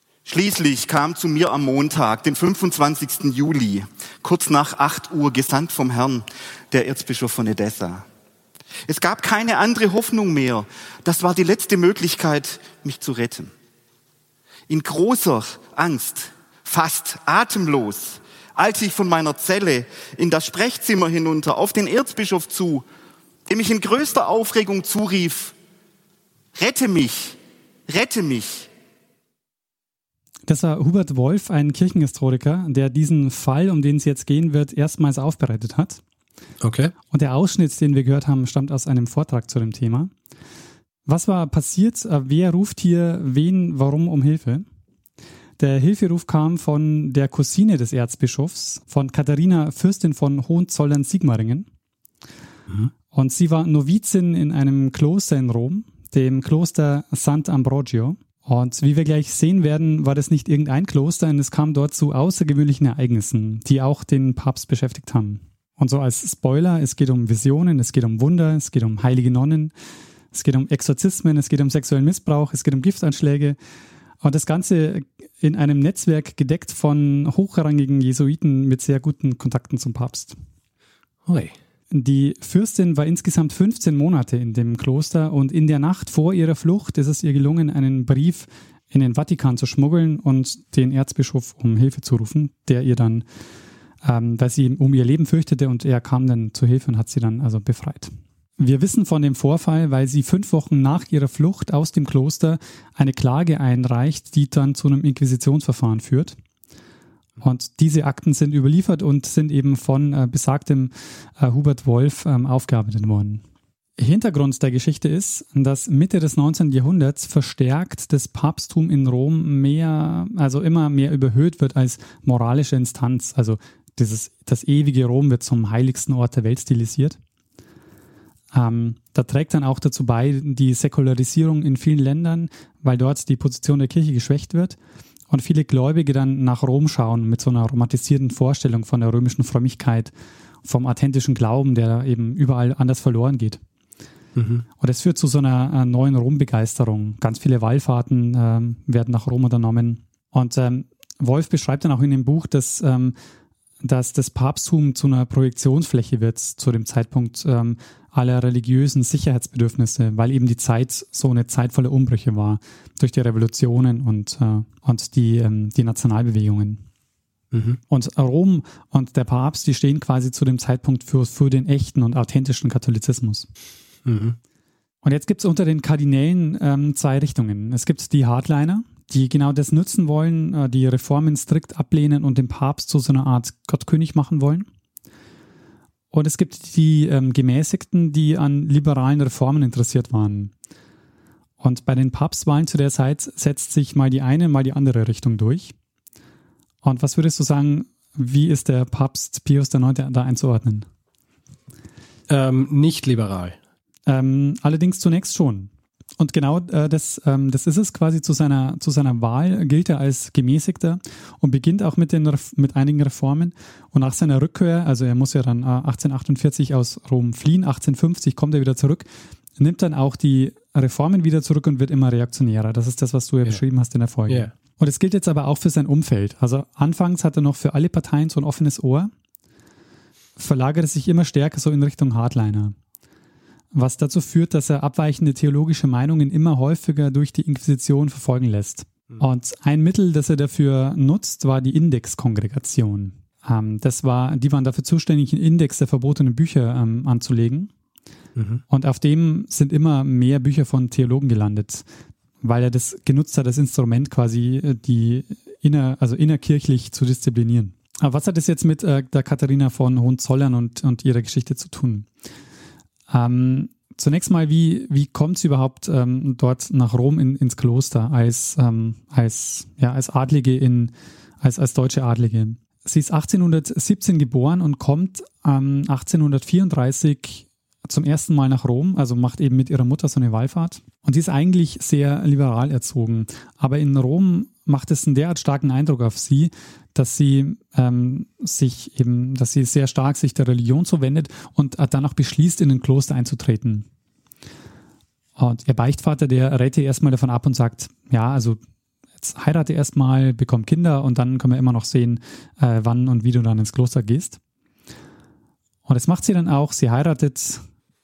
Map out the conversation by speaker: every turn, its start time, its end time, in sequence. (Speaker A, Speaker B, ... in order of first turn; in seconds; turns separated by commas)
Speaker A: 0.3-8.1, Speaker A: 8.9-13.5, Speaker A: 14.7-22.9, Speaker A: 23.5-25.6, Speaker A: 26.6-28.7, Speaker B: 30.5-36.0, Speaker C: 36.6-36.9, Speaker B: 37.1-40.1, Speaker B: 41.1-44.6, Speaker B: 45.6-51.7, Speaker B: 53.1-69.7, Speaker B: 70.3-73.6, Speaker B: 74.2-80.4, Speaker C: 81.3-81.5, Speaker B: 81.9-93.3, Speaker B: 94.0-106.4, Speaker B: 107.4-113.4, Speaker B: 114.0-127.2, Speaker B: 128.5-134.8, Speaker B: 135.3-140.1, Speaker B: 140.6-143.6, Speaker C: 144.4-144.7, Speaker B: 144.8-153.2, Speaker B: 153.8-166.8, Speaker C: 167.5-167.8, Speaker B: 167.9-173.5, Speaker C: 174.1-174.4, Speaker B: 175.0-184.7, Speaker B: 186.1-190.5, Speaker B: 191.6-195.8, Speaker B: 196.8-200.9, Speaker C: 202.3-203.6, Speaker B: 204.1-219.1, Speaker B: 219.6-229.1, Speaker B: 230.4-232.8, Speaker B: 233.7-247.7, Speaker C: 248.4-248.6, Speaker B: 248.7-251.8, Speaker B: 252.4-262.1, Speaker B: 263.1-293.9, Speaker B: 295.4-298.6, Speaker B: 299.2-304.4, Speaker B: 305.9-307.6